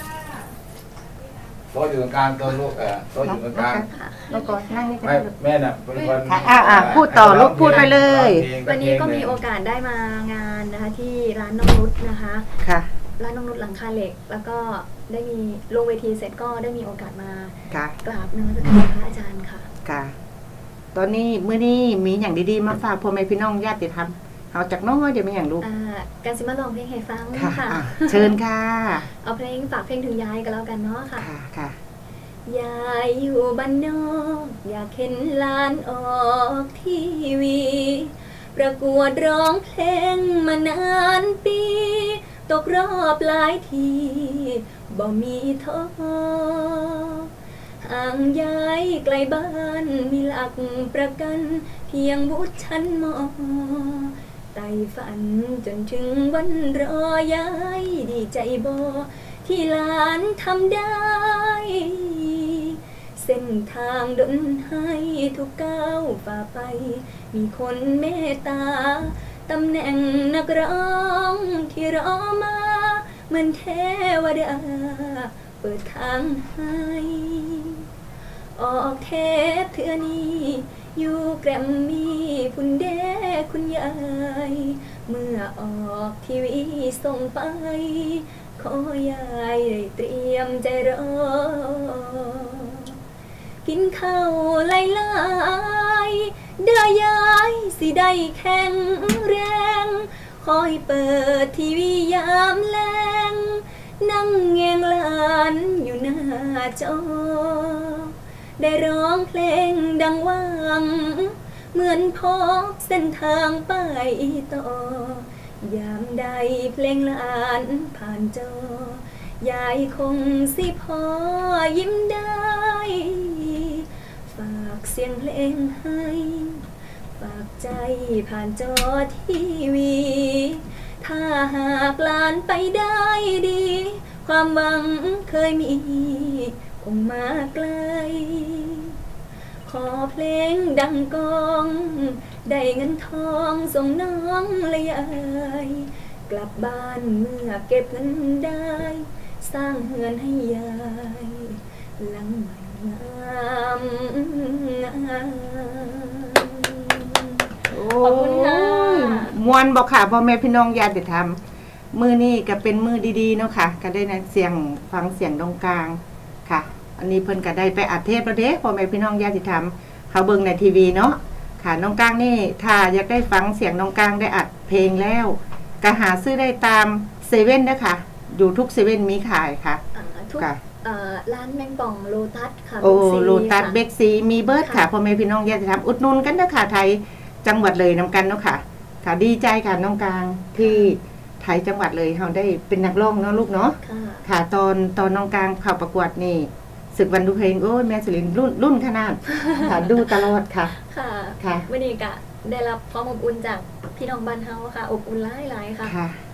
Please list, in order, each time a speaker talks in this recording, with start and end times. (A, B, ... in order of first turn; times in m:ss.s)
0:01.7-0:03.8 A
0:03.2-0:05.3 B
0:03.9-0:04.5 C
0:05.0-0:09.3 A
0:06.0-0:06.9 C
0:06.2-0:08.5 B
0:08.6-0:12.5 C
0:12.6-0:12.9 B
0:13.2-0:19.7 C
0:17.7-0:18.0 B
0:19.8-0:20.1 B
0:20.9-0:25.6 B
0:25.6-0:28.3 C
0:27.3-0:29.1 B
0:29.1-0:31.3 C
0:31.2-0:31.8 B
0:32.4-0:47.3 C
0:47.8-1:17.8 C
1:18.6-1:32.9 C
1:33.6-2:06.6 C
2:07.2-2:19.0 C
2:19.6-2:39.4 C
2:37.7-2:41.4 B
2:41.9-2:59.8 B
2:59.9-3:03.8 C
3:02.8-3:20.7 B
3:10.6-3:10.9 C
3:13.8-3:14.2 C
3:19.4-3:19.8 C
3:20.7-3:25.9 C
3:21.4-3:21.6 B
3:25.8-3:26.2 B